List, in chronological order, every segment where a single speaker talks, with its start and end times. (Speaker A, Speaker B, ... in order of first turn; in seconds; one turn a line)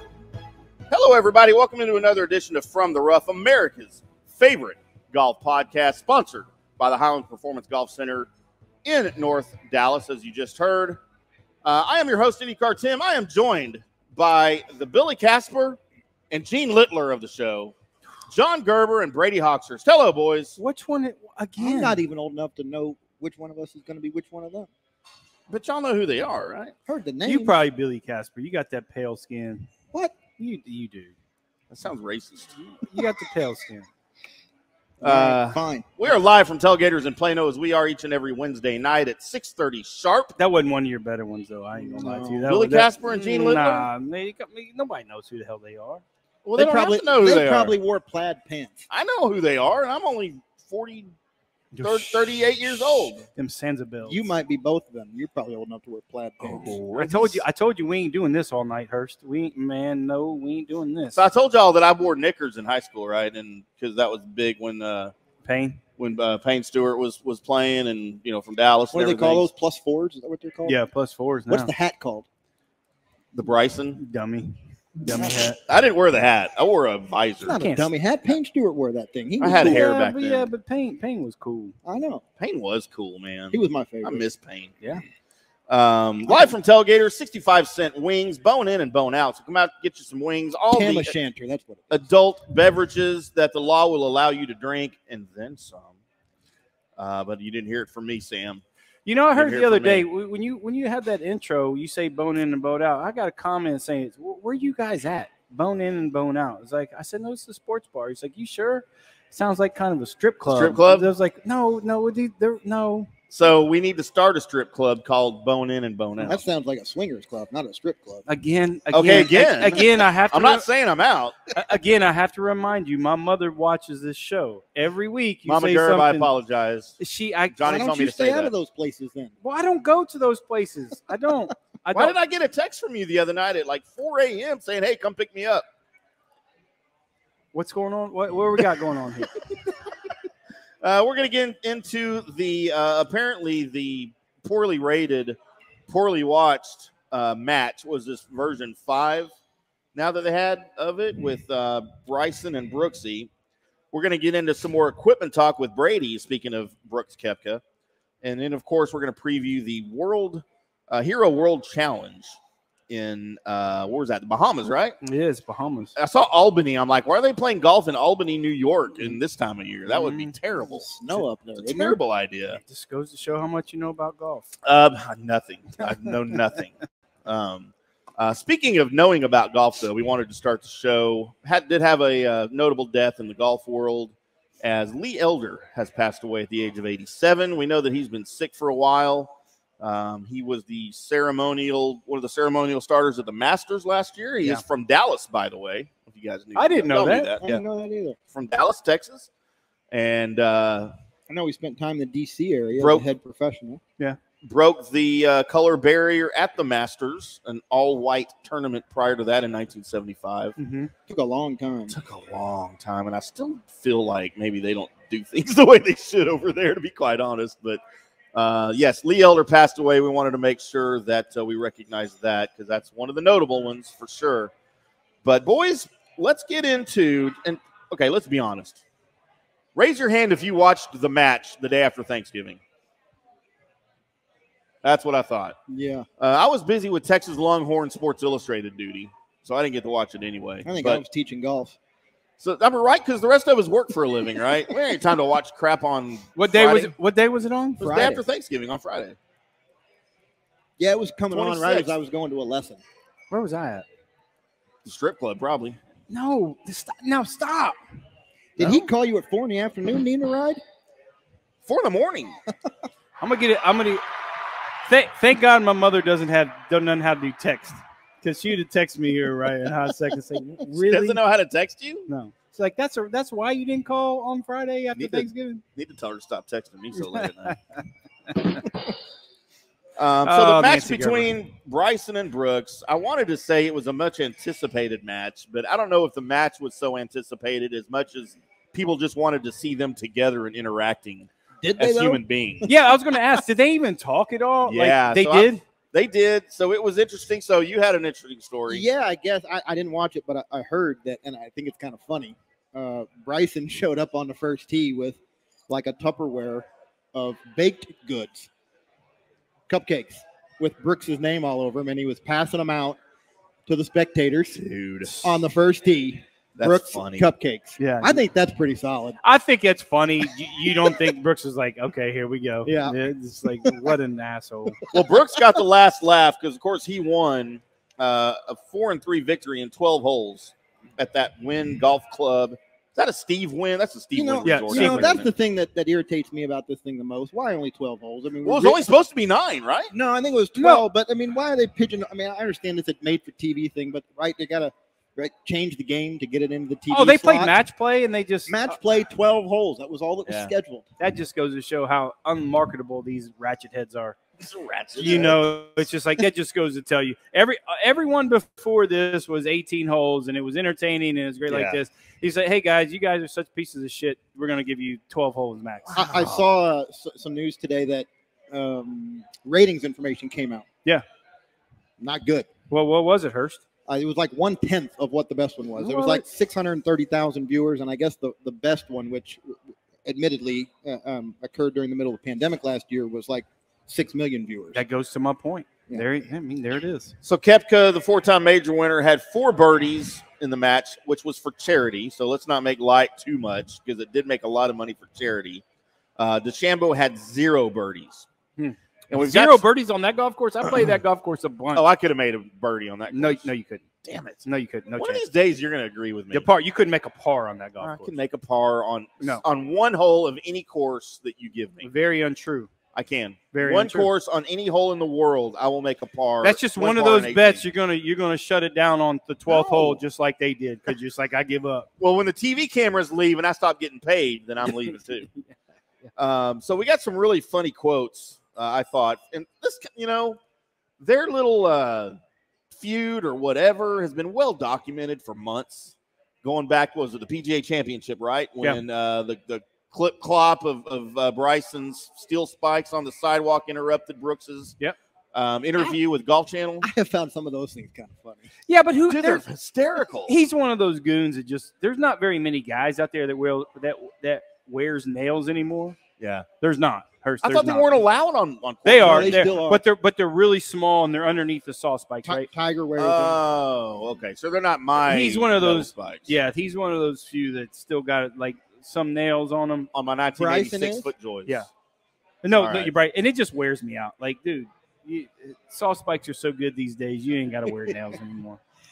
Speaker A: 0.9-8.3
Speaker A: 8.8-11.0
Speaker A: 11.6-15.8
Speaker A: 16.3-17.7
Speaker A: 18.3-20.6
Speaker B: 20.6-22.0
Speaker C: 21.6-24.7
Speaker A: 25.5-26.7
Speaker C: 26.9-27.6
Speaker B: 27.2-29.7
Speaker B: 30.4-31.1
Speaker A: 31.7-32.5
Speaker B: 32.7-33.9
Speaker C: 35.0-35.9
Speaker A: 35.0-40.4
Speaker B: 40.4-46.0
Speaker C: 41.8-42.5
Speaker A: 42.5-43.9
Speaker A: 46.5-47.8
Speaker C: 46.5-48.9
Speaker A: 48.9-51.1
Speaker B: 51.7-52.3
Speaker A: 51.8-53.3
Speaker B: 53.4-54.3
Speaker C: 54.0-56.8
Speaker A: 56.5-57.4
Speaker B: 56.5-61.2
Speaker A: 61.1-65.1
Speaker B: 65.4-65.8
Speaker A: 66.0-69.5
Speaker C: 68.9-70.8
Speaker B: 70.7-71.7
Speaker C: 71.5-72.2
Speaker A: 73.3-74.0
Speaker B: 73.9-75.6
Speaker A: 75.7-77.6
Speaker C: 77.4-79.8
Speaker B: 77.5-77.9
Speaker A: 79.4-80.5
Speaker B: 79.5-81.8
Speaker C: 81.8-82.2
Speaker A: 82.4-84.7
Speaker C: 83.5-84.3
Speaker A: 85.7-91.2
Speaker C: 90.7-92.0
Speaker A: 91.9-95.9
Speaker A: 97.0-98.6
Speaker B: 99.0-113.1
Speaker A: 99.3-100.1
Speaker A: 110.5-111.1
Speaker A: 113.3-116.4
Speaker C: 116.3-118.2
Speaker B: 118.2-120.6
Speaker A: 118.9-121.5
Speaker B: 121.5-126.3
Speaker A: 125.5-127.0
Speaker B: 127.0-127.8
Speaker A: 127.5-128.5
Speaker C: 127.6-129.3
Speaker B: 129.4-132.2
Speaker A: 131.9-135.6
Speaker B: 137.5-139.4
Speaker A: 140.8-145.4
Speaker A: 145.9-149.3
Speaker A: 149.9-153.3
Speaker A: 153.9-157.6
Speaker A: 158.2-162.3
Speaker A: 162.9-165.0
Speaker B: 165.0-165.9
Speaker A: 165.9-170.9
Speaker B: 169.9-170.3
Speaker C: 170.6-172.0
Speaker A: 171.5-172.6
Speaker B: 172.5-174.5
Speaker A: 174.6-176.7
Speaker A: 177.2-197.6
Speaker B: 196.6-197.3
Speaker C: 197.4-198.2
Speaker A: 198.3-199.3
Speaker A: 199.9-200.9
Speaker C: 201.3-203.8
Speaker A: 202.8-203.0
Speaker A: 204.4-210.5
Speaker B: 210.6-210.9
Speaker C: 211.1-211.9
Speaker A: 211.9-217.8
Speaker A: 218.3-224.5
Speaker A: 225.2-228.8
Speaker A: 229.8-232.6
Speaker A: 234.8-235.6
Speaker C: 235.7-236.1
Speaker A: 236.2-241.0
Speaker C: 240.6-241.8
Speaker A: 242.4-246.9
Speaker B: 246.4-247.9
Speaker A: 247.8-249.2
Speaker C: 247.8-248.2
Speaker C: 250.8-252.8
Speaker A: 251.3-251.9
Speaker B: 253.3-253.8
Speaker A: 254.8-255.8
Speaker B: 256.1-257.8
Speaker C: 258.6-260.6
Speaker A: 261.6-262.4
Speaker B: 263.2-264.0
Speaker B: 264.9-271.2
Speaker A: 270.8-272.1
Speaker B: 272.1-275.6
Speaker A: 275.0-277.6
Speaker B: 276.9-277.5
Speaker A: 280.0-292.7
Speaker B: 280.2-281.4
Speaker C: 291.6-292.7
Speaker B: 292.6-295.6
Speaker A: 294.6-298.8
Speaker C: 298.7-308.5
Speaker C: 309.7-313.0
Speaker C: 313.7-314.6
Speaker A: 314.6-315.3
Speaker C: 315.2-319.2
Speaker A: 316.6-317.3
Speaker B: 317.8-318.2
Speaker B: 319.2-324.8
Speaker C: 322.6-323.0
Speaker A: 324.9-335.3
Speaker C: 334.1-338.9
Speaker B: 334.4-335.2
Speaker A: 338.4-339.9
Speaker C: 339.9-347.6
Speaker B: 340.6-340.9
Speaker B: 346.9-348.7
Speaker C: 348.5-350.9
Speaker A: 350.2-350.5
Speaker B: 351.0-354.2
Speaker A: 354.4-355.4
Speaker B: 354.9-366.4
Speaker A: 361.5-361.8
Speaker C: 365.9-370.6
Speaker C: 372.0-372.5
Speaker B: 372.7-373.6
Speaker C: 373.9-384.8
Speaker B: 375.8-376.2
Speaker B: 384.7-387.1
Speaker A: 387.2-395.6
Speaker A: 396.2-398.3
Speaker B: 398.6-401.8
Speaker A: 399.1-399.6
Speaker A: 401.7-403.5
Speaker B: 403.1-403.8
Speaker A: 404.0-404.4
Speaker B: 404.4-405.2
Speaker A: 405.0-406.5
Speaker B: 406.3-408.1
Speaker A: 407.8-411.9
Speaker B: 411.8-412.7
Speaker A: 412.9-417.6
Speaker B: 413.5-414.1
Speaker B: 416.4-421.9
Speaker C: 419.5-420.0
Speaker A: 422.0-425.3
Speaker A: 426.1-430.4
Speaker A: 431.0-432.2
Speaker A: 432.7-444.8
Speaker A: 445.3-446.9
Speaker C: 446.8-448.5
Speaker B: 448.7-449.4
Speaker A: 449.1-450.3
Speaker B: 450.2-456.0
Speaker A: 456.2-456.5
Speaker B: 456.6-458.0
Speaker A: 457.4-459.6
Speaker B: 458.8-462.5
Speaker C: 459.0-459.8
Speaker C: 462.2-463.4
Speaker A: 463.0-466.4
Speaker B: 465.0-469.9
Speaker A: 469.9-471.6
Speaker C: 470.4-471.1
Speaker B: 472.4-478.6
Speaker A: 472.5-472.9